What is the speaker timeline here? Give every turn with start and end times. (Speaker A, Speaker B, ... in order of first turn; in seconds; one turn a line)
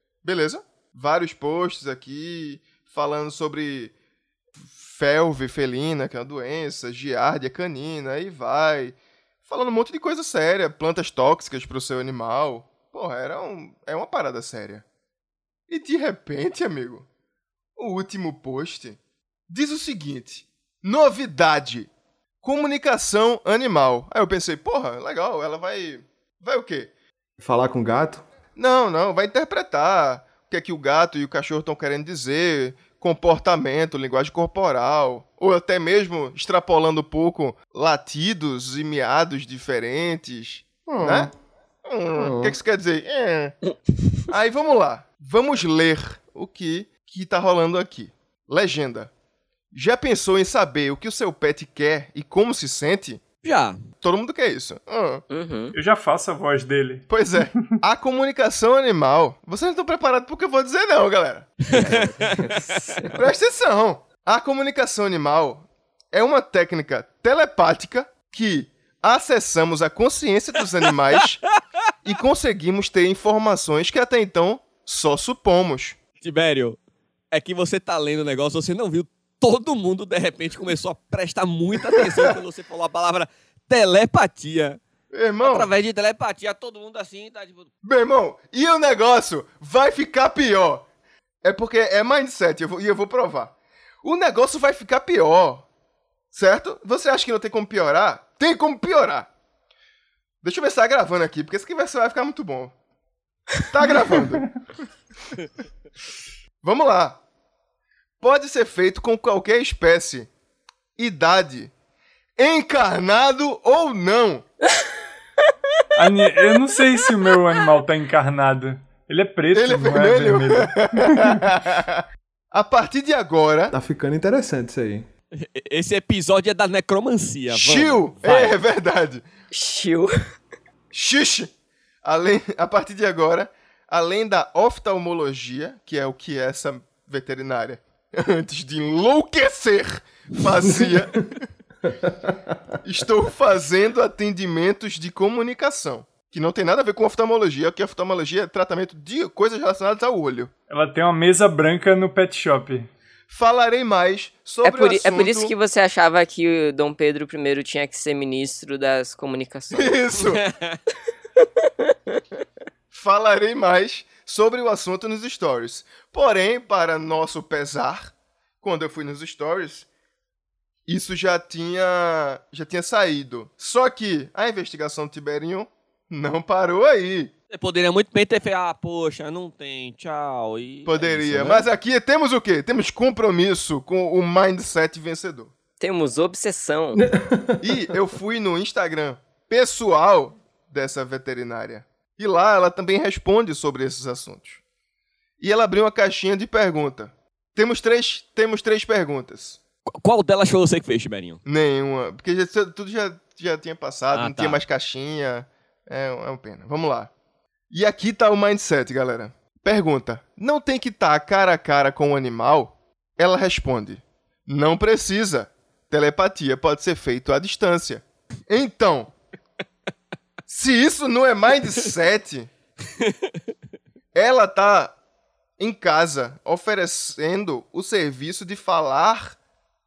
Speaker A: 0.2-3.9
Speaker A: 4.6-14.8
Speaker A: 15.7-17.1
Speaker A: 17.8-21.9
Speaker A: 22.4-26.9
Speaker B: 27.4-28.2
Speaker A: 28.6-41.3
Speaker B: 40.9-41.3
Speaker A: 41.9-43.6
Speaker B: 42.2-42.6
Speaker A: 44.3-49.1
Speaker A: 49.7-53.2
Speaker C: 53.4-53.8
Speaker A: 54.0-55.2
Speaker D: 55.3-55.8
Speaker E: 55.7-57.8
Speaker A: 57.1-62.1
Speaker C: 61.7-62.8
Speaker D: 61.7-63.1
Speaker A: 63.1-71.4
Speaker A: 72.0-76.0
Speaker C: 76.2-76.8
Speaker C: 77.3-84.8
Speaker A: 85.1-85.7
Speaker C: 85.4-87.7
Speaker A: 87.8-90.9
Speaker A: 91.4-95.7
Speaker A: 96.3-99.3
Speaker A: 100.4-102.7
Speaker A: 103.6-104.5
Speaker A: 106.6-107.2
Speaker A: 108.2-110.3
Speaker A: 111.0-111.7
Speaker A: 112.4-114.5
Speaker E: 116.0-121.4
Speaker A: 119.5-123.7
Speaker B: 123.7-125.1
Speaker C: 125.4-128.6
Speaker A: 127.5-129.2
Speaker D: 129.5-130.1
Speaker A: 130.9-131.5
Speaker A: 132.0-141.4
Speaker B: 140.7-141.0
Speaker B: 141.9-142.8
Speaker A: 142.8-150.5
Speaker E: 150.7-152.9
Speaker A: 153.3-155.5
Speaker D: 154.6-160.0
Speaker A: 159.7-160.4
Speaker C: 160.2-160.8
Speaker A: 162.9-169.9
Speaker A: 170.9-177.3
Speaker C: 177.5-181.7
Speaker A: 180.9-185.5
Speaker D: 185.8-187.1
Speaker B: 186.9-187.8
Speaker A: 187.6-194.6
Speaker A: 195.4-199.6
Speaker C: 200.0-201.4
Speaker A: 201.5-207.1
Speaker C: 204.1-204.6
Speaker A: 207.7-219.1
Speaker A: 220.5-222.5
Speaker A: 224.1-224.9
Speaker A: 225.6-229.4